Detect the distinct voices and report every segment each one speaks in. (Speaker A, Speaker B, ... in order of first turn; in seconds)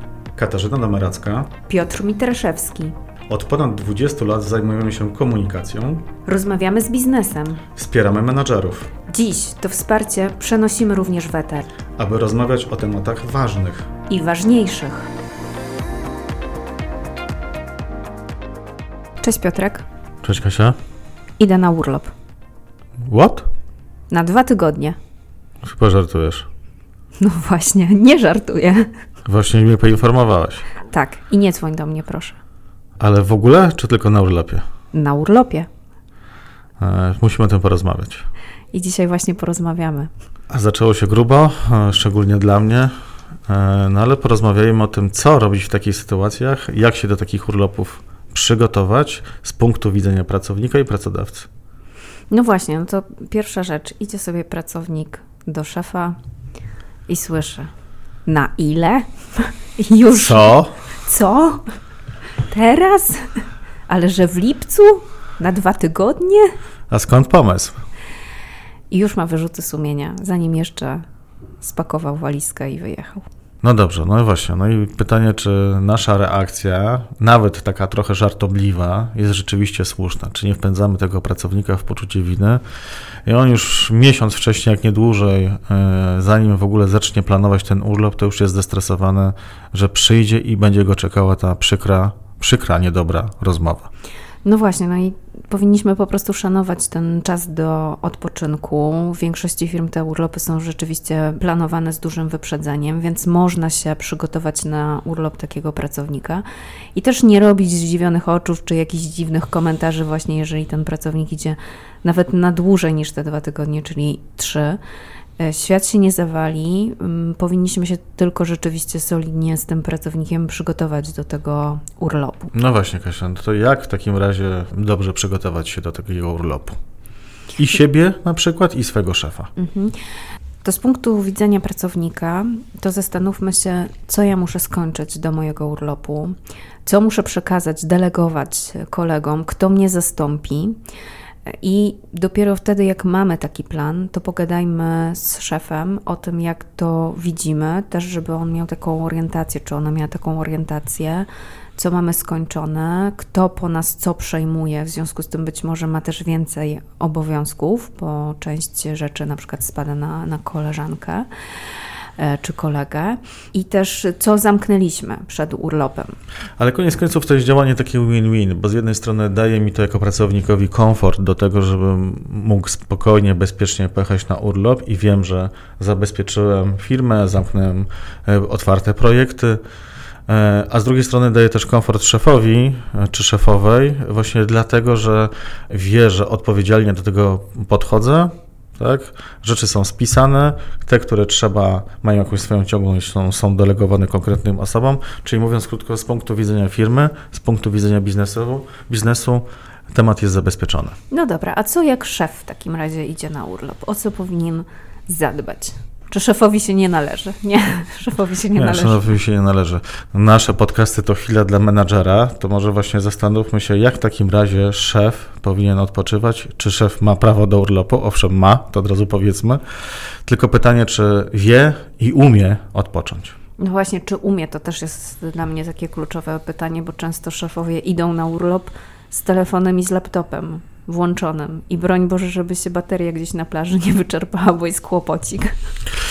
Speaker A: 0.3-1.5, 3.3-6.1, 7.8-8.9, 12.0-13.9, 20.2-20.8, 23.0-23.5, 25.6-26.5, 29.2-30.7, 33.0-34.6, 36.8-38.2, 40.5-42.9, 43.5-51.5, 60.1-60.8, 66.9-67.8, 73.6-82.6, 83.2-93.9, 122.5-126.8, 127.6-129.5, 166.6-179.6, 180.3-200.9, 208.5-219.6, 220.2-223.3
Speaker B: 1.7-2.9, 6.2-7.6, 9.1-11.7, 14.1-15.1, 19.2-19.9, 21.4-22.1, 24.1-25.0, 27.2-28.9, 30.9-32.4, 34.9-35.7, 38.7-40.1, 52.3-56.2, 57.1-57.7, 58.2-61.6, 62.5-66.5, 68.9-71.0, 71.6-73.2, 94.4-114.8, 115.4-122.5, 129.6-130.0, 130.6-140.8, 141.5-161.3, 162.2-166.2, 201.1-209.1, 223.6-235.5